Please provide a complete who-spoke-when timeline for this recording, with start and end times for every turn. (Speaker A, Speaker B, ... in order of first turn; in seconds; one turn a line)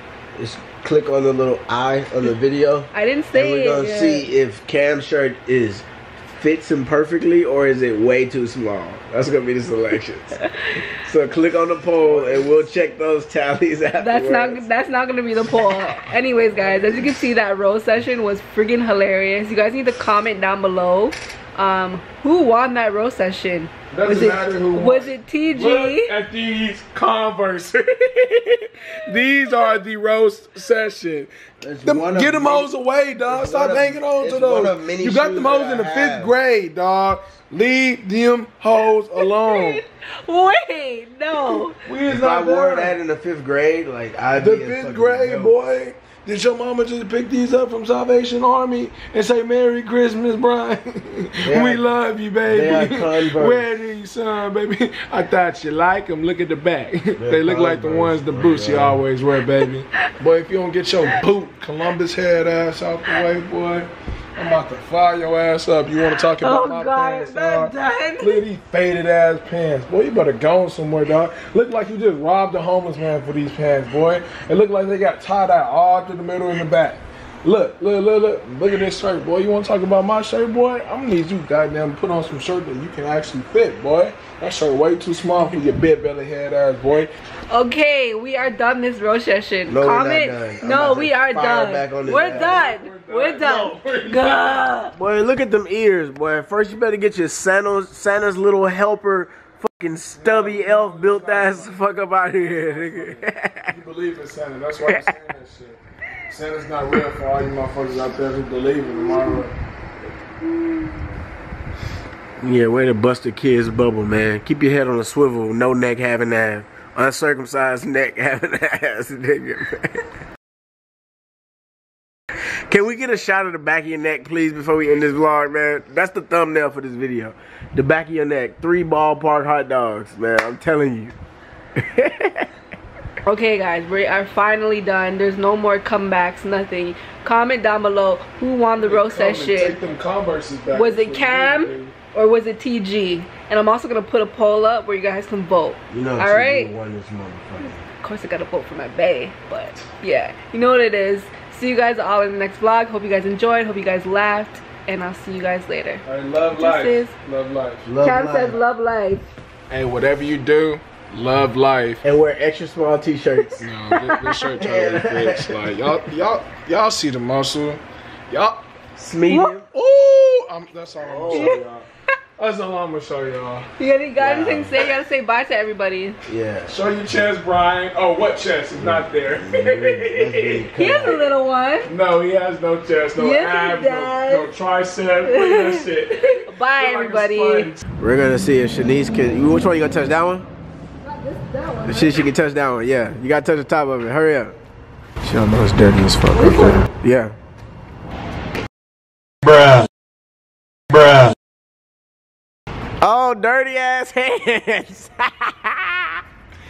Speaker A: 0.3-10.4
Speaker B: 2.9-4.3
Speaker B: 10.4-10.8
Speaker A: 10.9-14.6
Speaker C: 12.0-12.6
Speaker B: 14.0-26.1
Speaker C: 23.9-31.3
Speaker A: 31.6-32.7
Speaker C: 31.8-39.8
Speaker A: 33.3-36.3
Speaker B: 39.2-41.8
Speaker C: 41.9-42.9
Speaker A: 42.1-45.5
Speaker C: 44.4-87.1
Speaker A: 51.4-51.8
Speaker A: 52.5-53.6
Speaker A: 57.2-59.0
Speaker B: 66.4-68.4
Speaker B: 87.5-94.9
Speaker A: 89.7-92.6
Speaker C: 92.1-94.6
Speaker A: 95.0-103.7
Speaker C: 100.2-109.5
Speaker A: 112.4-120.0
Speaker A: 122.7-131.1
Speaker A: 131.7-132.5
Speaker B: 133.2-139.8
Speaker C: 138.8-141.9
Speaker B: 140.7-146.7
Speaker A: 145.9-147.8
Speaker B: 148.0-157.1
Speaker C: 156.0-157.9
Speaker A: 157.8-158.6
Speaker B: 158.0-159.3
Speaker C: 159.7-162.0
Speaker A: 162.0-163.7
Speaker C: 163.6-168.6
Speaker B: 163.9-164.3
Speaker A: 164.6-165.6
Speaker A: 168.9-169.7
Speaker B: 169.3-169.6
Speaker C: 169.7-171.8
Speaker A: 171.0-171.6
Speaker B: 171.3-171.6
Speaker C: 172.4-173.7
Speaker B: 173.8-176.2
Speaker A: 174.2-174.8
Speaker A: 176.2-176.7
Speaker C: 176.7-180.6
Speaker A: 178.8-181.3
Speaker B: 180.8-181.9
Speaker C: 181.8-187.8
Speaker B: 183.2-184.5
Speaker B: 185.2-187.7
Speaker A: 188.0-190.5
Speaker B: 191.0-192.3
Speaker A: 191.8-194.6
Speaker A: 195.2-197.3
Speaker B: 196.3-196.8
Speaker A: 200.9-201.3
Speaker A: 203.0-206.2